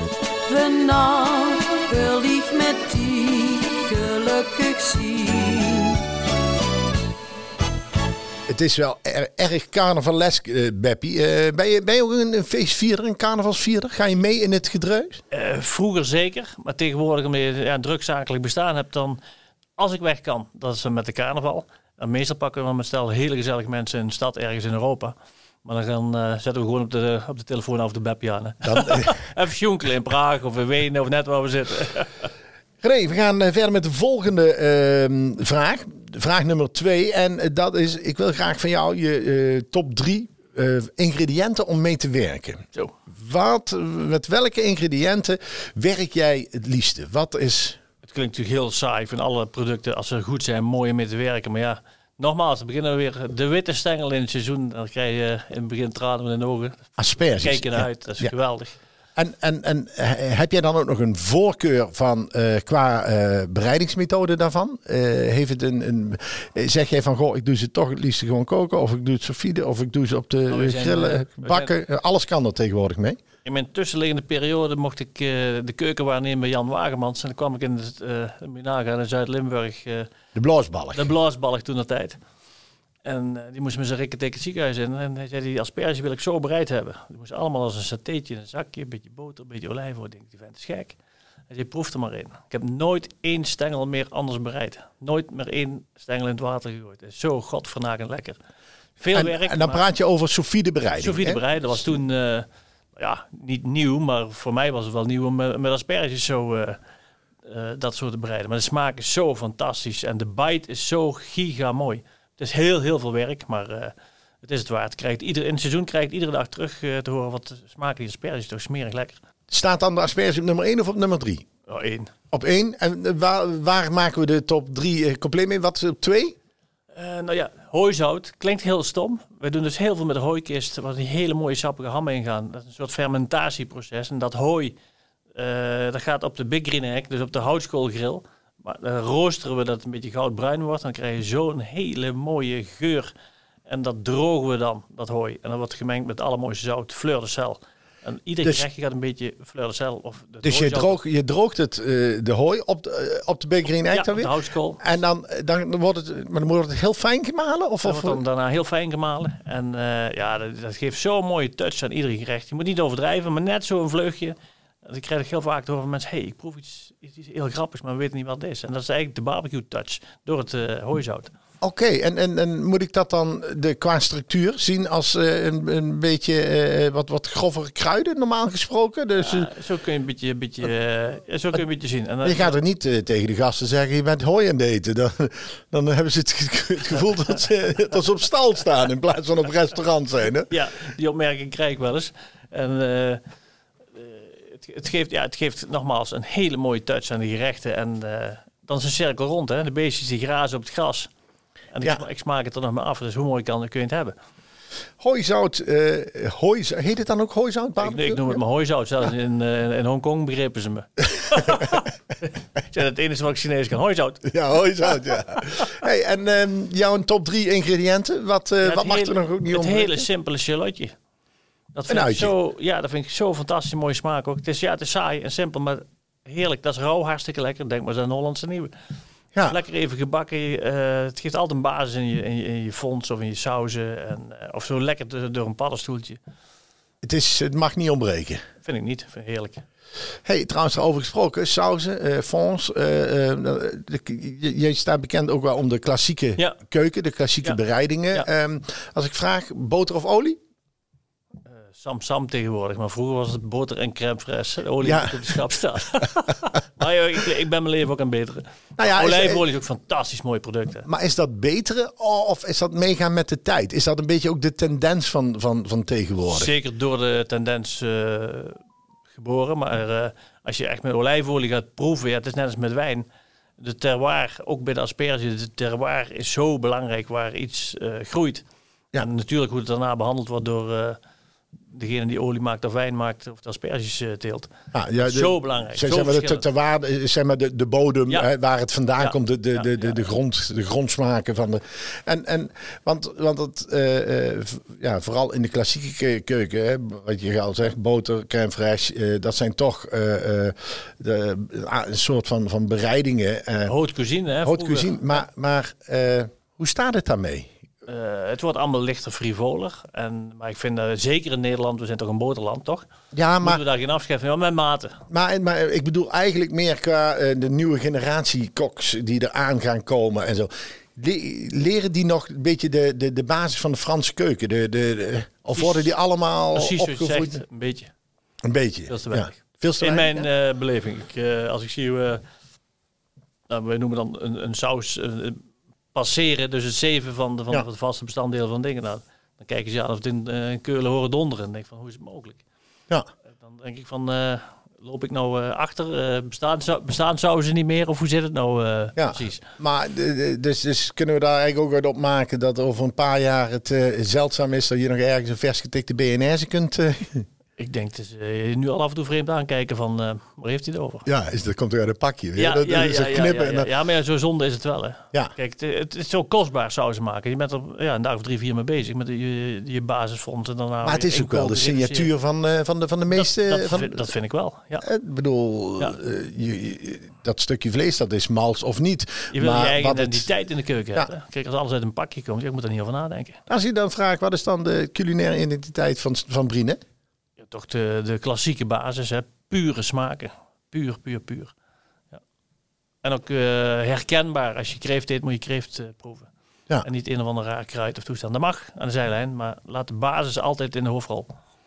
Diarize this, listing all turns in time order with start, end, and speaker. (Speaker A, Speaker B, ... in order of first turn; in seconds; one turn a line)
Speaker A: 0.5-6.0
Speaker B: 8.5-15.2
Speaker C: 15.3-19.2
Speaker C: 19.8-32.3
Speaker B: 28.6-29.1
Speaker B: 32.8-47.8
Speaker C: 48.0-58.8
Speaker B: 57.0-58.3
Speaker B: 59.2-73.2
Speaker C: 70.5-71.7
Speaker C: 73.5-80.1
Speaker B: 80.3-81.1
Speaker C: 80.9-82.2
Speaker C: 83.0-91.0
Speaker C: 91.5-98.4
Speaker C: 99.0-99.8
Speaker B: 99.1-101.4
Speaker C: 100.9-106.8
Speaker C: 107.5-119.2
Speaker B: 119.5-121.5
Speaker C: 121.7-122.1
Speaker B: 122.3-126.4
Speaker C: 126.9-134.8
Speaker C: 135.3-143.1
Speaker C: 143.7-151.0
Speaker B: 150.4-154.3
Speaker C: 153.9-155.0
Speaker B: 154.8-158.2
Speaker C: 157.8-171.3
Speaker B: 171.6-179.5
Speaker C: 179.2-182.6
Speaker B: 182.2-190.5
Speaker C: 190.5-193.2
Speaker C: 193.9-201.1
Speaker C: 201.7-204.2
Speaker B: 205.0-208.4
Speaker C: 207.8-214.3
Speaker B: 214.2-220.0
Speaker C: 218.6-220.9
Speaker C: 221.7-228.7
Speaker B: 221.9-222.3
Speaker C: 229.4-236.2
Speaker B: 237.0-238.4
Speaker C: 238.6-239.6
Speaker B: 240.2-250.4
Speaker C: 251.7-260.9
Speaker B: 254.8-255.4
Speaker B: 258.8-259.4
Speaker B: 260.9-266.5
Speaker C: 266.3-268.6
Speaker C: 269.1-273.1
Speaker C: 273.6-278.4
Speaker C: 279.0-281.0
Speaker C: 281.7-286.4
Speaker B: 284.7-303.7
Speaker C: 289.0-290.1
Speaker C: 303.7-305.2
Speaker B: 304.5-307.5
Speaker C: 307.9-312.9
Speaker B: 313.1-313.6
Speaker C: 313.4-315.0
Speaker B: 315.1-327.4
Speaker C: 325.5-325.9
Speaker C: 326.6-327.9
Speaker B: 328.4-330.3
Speaker C: 328.9-332.2
Speaker C: 333.5-335.4
Speaker C: 335.9-342.4
Speaker C: 343.4-349.4
Speaker B: 349.0-357.3
Speaker C: 357.6-361.1
Speaker B: 361.1-363.7
Speaker C: 362.4-372.1
Speaker B: 370.8-374.1
Speaker C: 373.1-374.9
Speaker B: 374.8-380.3
Speaker C: 379.3-383.4
Speaker B: 383.5-386.8
Speaker C: 387.4-391.5
Speaker C: 393.0-396.3
Speaker C: 396.8-401.4